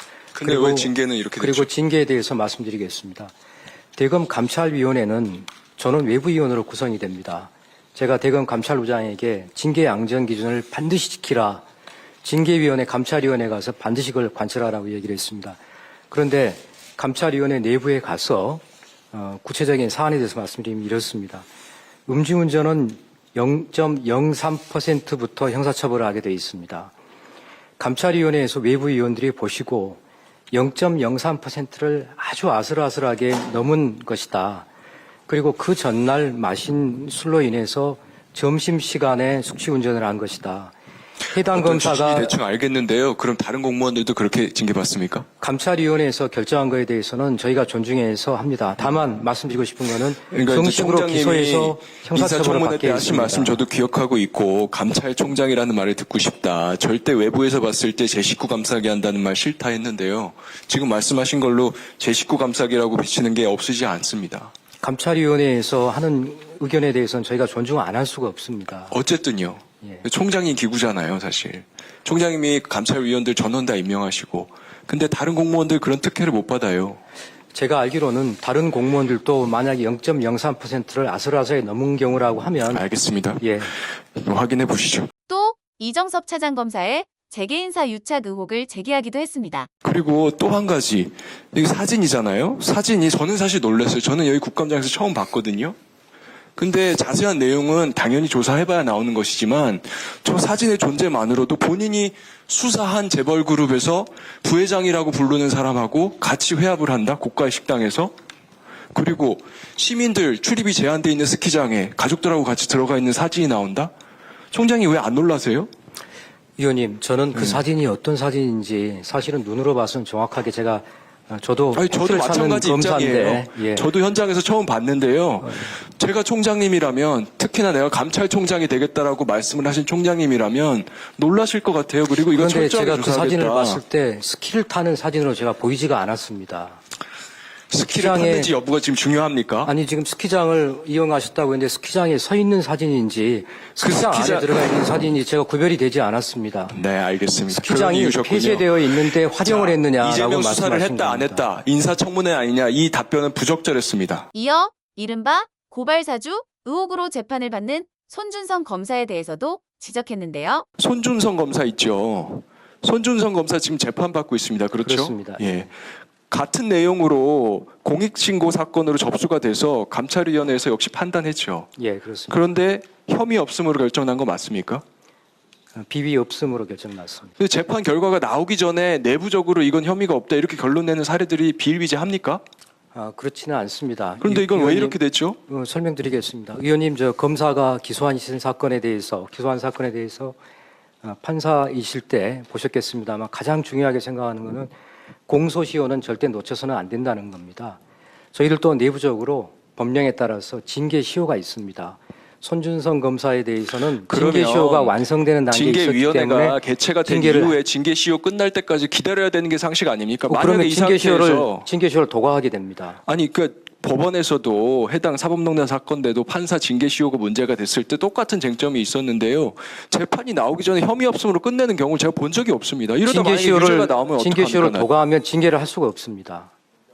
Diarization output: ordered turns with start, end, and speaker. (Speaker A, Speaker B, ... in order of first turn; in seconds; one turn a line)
Speaker A: 0.3-1.7
Speaker B: 0.4-3.3
Speaker B: 4.0-11.7
Speaker B: 12.2-15.6
Speaker B: 16.1-21.5
Speaker B: 22.1-26.9
Speaker B: 27.8-30.0
Speaker B: 30.5-34.7
Speaker B: 35.3-40.7
Speaker B: 41.3-42.4
Speaker A: 41.4-45.2
Speaker B: 45.4-53.6
Speaker A: 50.3-64.5
Speaker B: 64.8-69.0
Speaker A: 68.9-77.0
Speaker B: 77.5-82.8
Speaker A: 82.7-83.5
Speaker B: 83.4-83.7
Speaker A: 84.2-85.1
Speaker C: 85.3-89.7
Speaker A: 89.8-95.8
Speaker A: 96.6-108.1
Speaker A: 108.9-113.9
Speaker A: 114.5-115.7
Speaker B: 116.6-123.9
Speaker A: 117.3-117.6
Speaker A: 121.7-133.8
Speaker B: 125.4-125.7
Speaker B: 132.3-136.8
Speaker A: 137.7-139.7
Speaker B: 137.9-138.6
Speaker B: 139.7-146.8
Speaker A: 143.8-145.0
Speaker A: 146.7-154.3
Speaker B: 147.5-151.5
Speaker C: 154.3-160.7
Speaker A: 160.8-165.7
Speaker B: 164.8-165.5
Speaker A: 166.3-171.7
Speaker B: 171.8-172.4
Speaker A: 172.3-174.8
Speaker B: 175.7-177.3
Speaker A: 177.4-182.4
Speaker B: 182.9-190.4
Speaker A: 184.2-185.4
Speaker B: 191.0-194.7
Speaker B: 195.3-197.8
Speaker B: 198.3-207.6
Speaker A: 203.9-205.0
Speaker A: 205.5-211.7
Speaker B: 210.3-213.0
Speaker A: 213.1-224.9
Speaker B: 223.1-226.5